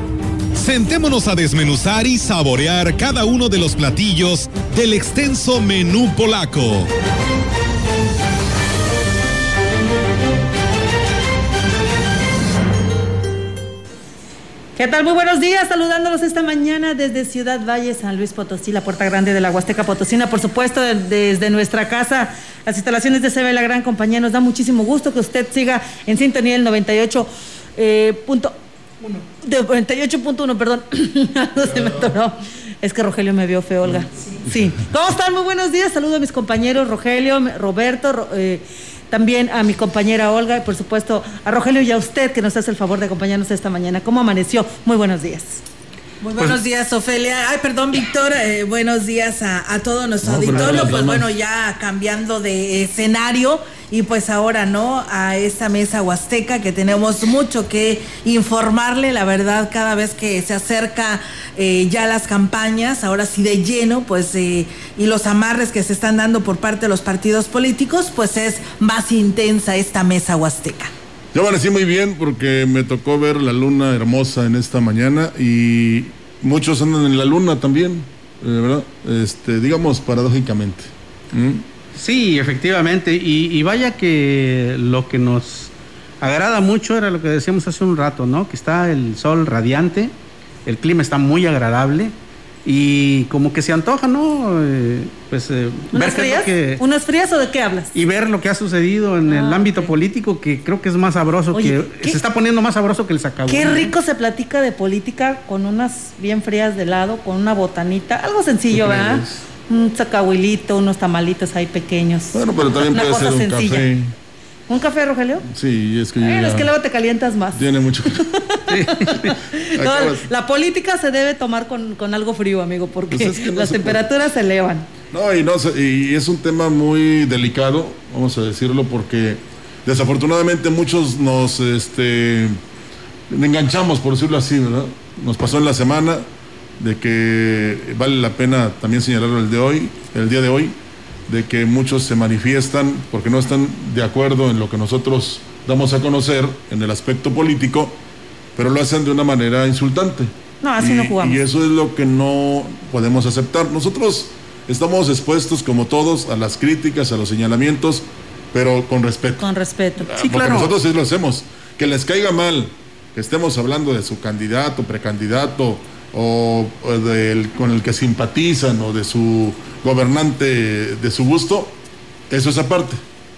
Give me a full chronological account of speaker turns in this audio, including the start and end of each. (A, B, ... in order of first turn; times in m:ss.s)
0:00.6-0:06.9 A
0:14.8-0:28.6 B
0:29.4-0:45.6 B
0:31.6-0:32.1 C
0:46.2-1:10.9 D
0:50.2-0:51.3 C
1:11.3-1:21.6 C
1:22.0-1:30.1 E
1:30.7-1:32.1 E
1:32.6-1:36.8 E
1:35.9-1:37.9 B
1:37.9-1:43.9 E
1:39.3-1:39.9 B
1:41.5-1:42.2 B
1:43.5-1:52.4 B
1:48.7-1:49.4 C
1:52.3-1:54.1 C
1:52.9-1:53.9 B
1:54.7-1:55.4 B
1:55.5-1:56.7 C
1:56.2-1:57.6 B
1:57.5-1:58.2 C
1:58.2-2:04.9 B
1:58.7-1:59.2 E
1:59.8-2:00.3 C
2:03.1-2:04.0 C
2:05.1-2:12.6 C
2:13.3-2:16.3 C
2:16.8-2:20.8 C
2:21.3-2:28.0 C
2:28.6-2:39.4 C
2:30.6-2:31.4 B
2:39.4-2:40.7 B
2:40.0-2:51.8 C
2:52.3-2:53.0 C